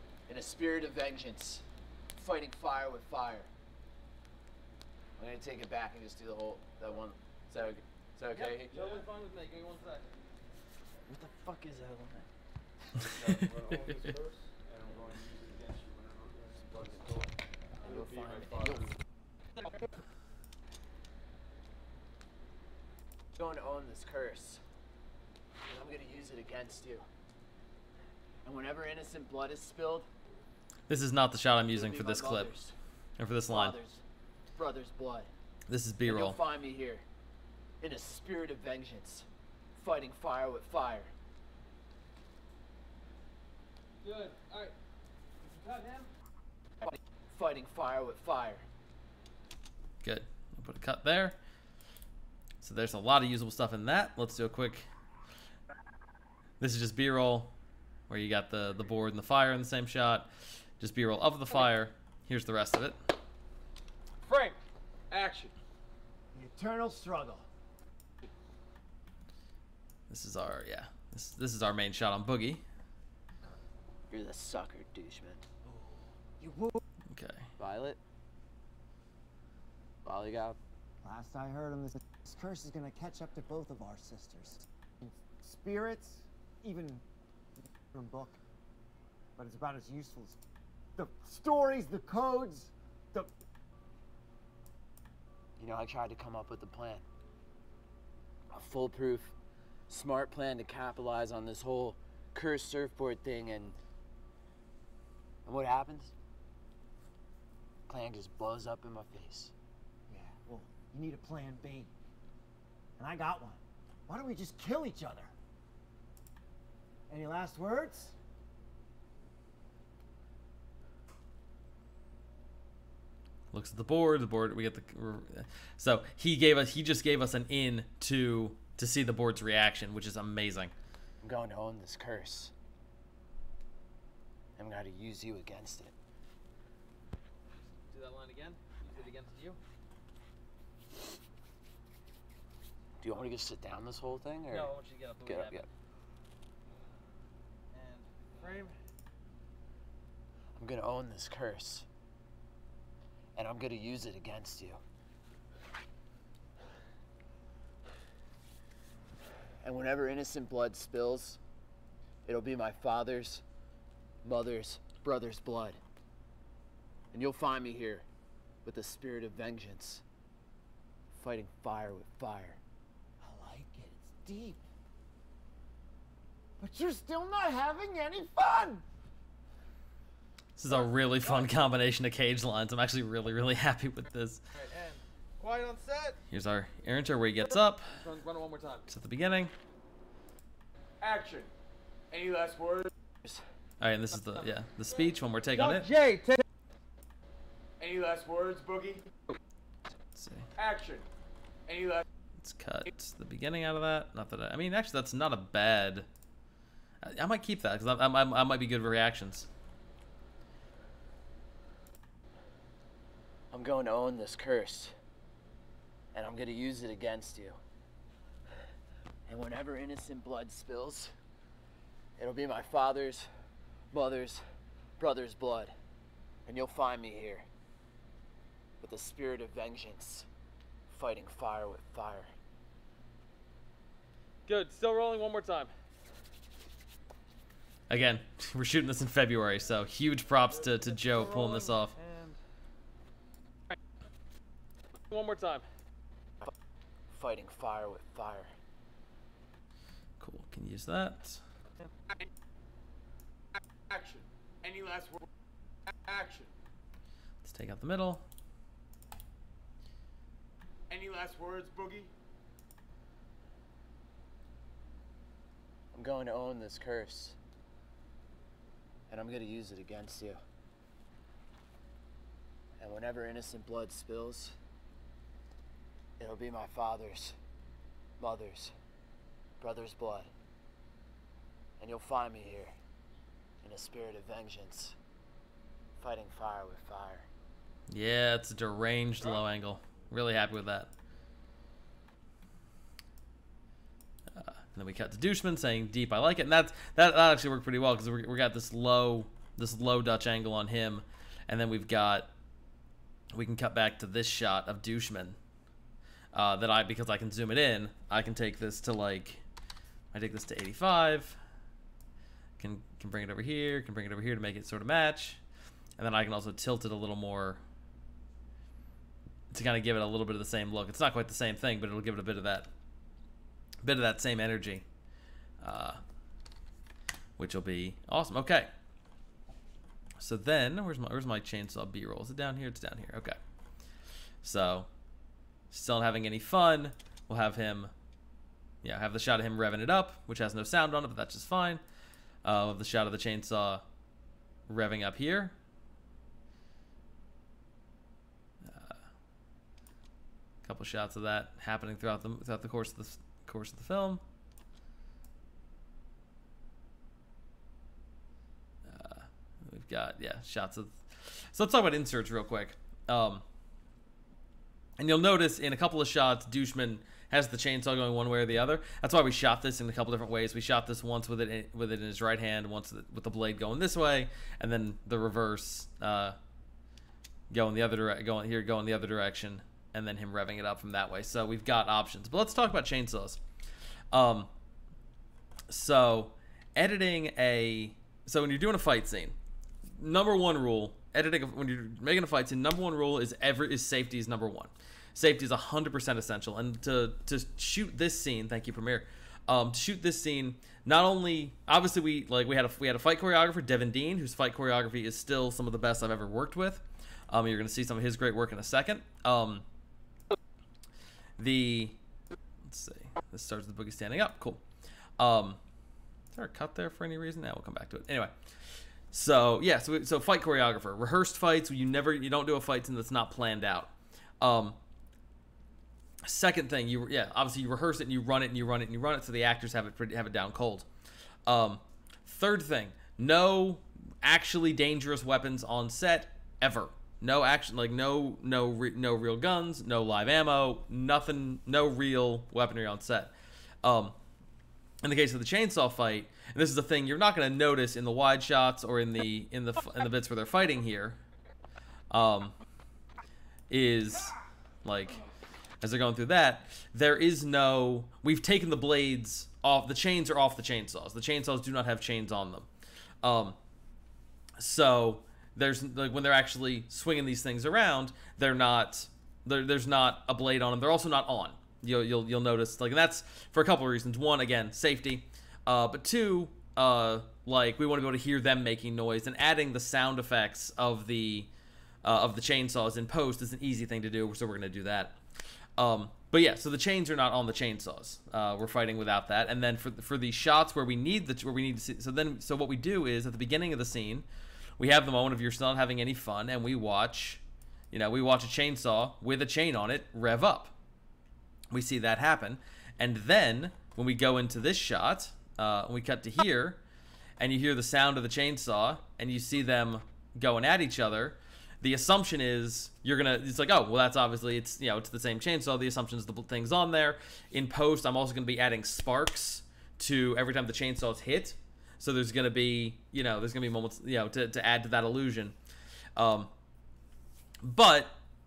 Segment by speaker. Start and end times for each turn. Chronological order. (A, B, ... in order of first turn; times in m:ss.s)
0:00.3-0:01.6 A
0:02.1-0:03.5 A
0:05.2-0:08.7 A
0:08.3-0:10.1 B
0:08.7-0:09.0 C
0:11.1-0:12.3 A
0:12.9-0:18.9 C
0:16.7-0:17.3 A
0:17.8-0:18.9 A
0:23.3-0:24.6 A
0:25.7-0:27.0 A
0:28.4-0:30.1 A
0:30.9-0:32.5 D
0:31.7-0:32.7 A
0:33.2-0:33.8 D
0:33.5-0:35.3 A
0:35.7-0:36.4 D
0:36.0-0:37.0 A
0:37.8-0:41.1 A
0:44.0-0:44.7 B
0:45.4-0:46.1 B
0:46.8-0:48.6 A
0:50.0-0:51.4 D
0:52.6-0:54.9 D
0:56.6-0:57.5 D
0:58.1-1:03.0 D
1:04.2-1:04.6 B
1:05.1-1:05.5 C
1:06.3-1:07.5 E
1:10.1-1:12.6 D
1:14.1-1:15.4 A
1:15.6-1:16.8 E
1:17.1-1:17.5 D
1:17.6-1:18.0 A
1:20.0-1:20.6 A
1:21.0-1:27.0 E
1:27.6-1:28.4 E
1:29.4-1:30.4 E
1:31.0-1:33.3 E
1:35.6-1:37.0 A
1:38.5-1:39.3 A
1:39.9-1:43.8 A
1:45.4-1:46.1 A
1:47.9-1:49.5 A
1:50.1-1:51.9 E
1:53.0-1:55.3 E
1:57.1-1:58.1 E
2:03.5-2:10.7 D
2:11.2-2:12.5 A
2:14.6-2:15.9 A
2:17.9-2:19.6 B
2:23.0-2:24.7 A
2:24.5-2:25.7 B
2:25.2-2:25.6 A
2:27.7-2:28.7 B
2:30.6-2:31.9 A
2:33.4-2:34.8 A
2:39.6-2:41.4 A
2:42.2-2:43.4 A
2:44.2-2:45.8 A
2:47.1-2:48.0 A
2:48.6-2:50.0 A
2:51.1-2:52.6 A
2:53.2-2:54.6 E
2:56.6-2:58.8 E
3:00.6-3:04.4 D
3:01.2-3:01.5 B
3:04.5-3:06.2 B
3:06.3-3:08.0 D
3:07.9-3:08.9 B
3:08.9-3:09.5 D
3:11.0-3:11.5 C
3:12.1-3:12.9 C
3:13.8-3:15.9 D
3:15.5-3:16.4 B
3:17.8-3:19.1 C
3:20.1-3:20.5 D
3:20.6-3:21.1 C
3:21.7-3:22.0 C
3:22.4-3:26.1 D
3:27.0-3:29.5 D
3:33.5-3:34.9 A
3:36.1-3:37.6 A
3:39.3-3:41.1 A
3:42.2-3:43.3 A
3:43.9-3:44.4 A
3:45.0-3:45.7 A
3:46.4-3:47.5 A
3:48.8-3:50.3 A
3:50.9-3:52.3 A
3:54.4-3:55.7 B
3:57.9-4:01.9 D
4:00.5-4:02.4 B
4:05.0-4:05.6 B
4:07.1-4:08.5 A
4:10.2-4:11.4 D
4:13.9-4:15.2 C
4:15.9-4:16.6 C
4:17.4-4:18.2 D
4:20.9-4:22.1 C
4:25.9-4:27.4 A
4:29.1-4:30.4 A
4:32.8-4:34.6 A
4:36.2-4:37.4 A
4:38.2-4:38.7 A
4:39.6-4:40.3 A
4:41.8-4:42.8 A
4:43.6-4:45.0 A
4:46.0-4:47.3 A
4:47.9-4:50.9 D
4:54.3-5:02.3 D
5:03.3-5:05.4 D
5:06.3-5:09.4 D
5:10.1-5:11.4 D
5:12.6-5:15.4 D
5:16.0-5:17.6 D
5:19.5-5:22.7 D
5:23.8-5:24.8 D
5:25.6-5:26.0 D
5:27.4-5:28.7 D
5:30.2-5:33.4 D
5:34.4-5:34.9 D
5:35.7-5:37.9 D
5:38.8-5:41.8 D
5:42.4-5:43.8 D
5:44.7-5:45.6 D
5:48.6-5:49.0 D
5:50.6-5:54.2 D
5:58.8-6:03.4 D
6:05.0-6:16.4 D
6:17.5-6:23.4 D
6:24.1-6:24.5 D
6:25.7-6:29.3 D
6:30.0-6:49.6 D
6:51.4-6:52.0 D
6:52.6-6:54.6 D
6:55.2-6:55.6 D
6:56.3-6:58.3 D
6:59.1-7:04.8 D
7:06.2-7:10.9 D
7:11.4-7:24.2 D
7:25.0-7:31.2 D
7:32.1-7:32.6 D
7:33.7-7:35.2 D
7:35.8-7:42.7 D
7:43.2-7:43.6 D
7:44.6-8:01.5 D
8:02.0-8:05.2 D
8:05.8-8:14.2 D
8:14.8-8:20.7 D
8:21.7-8:26.8 D
8:27.4-8:45.6 D
8:46.2-8:46.5 D
8:47.6-8:48.2 D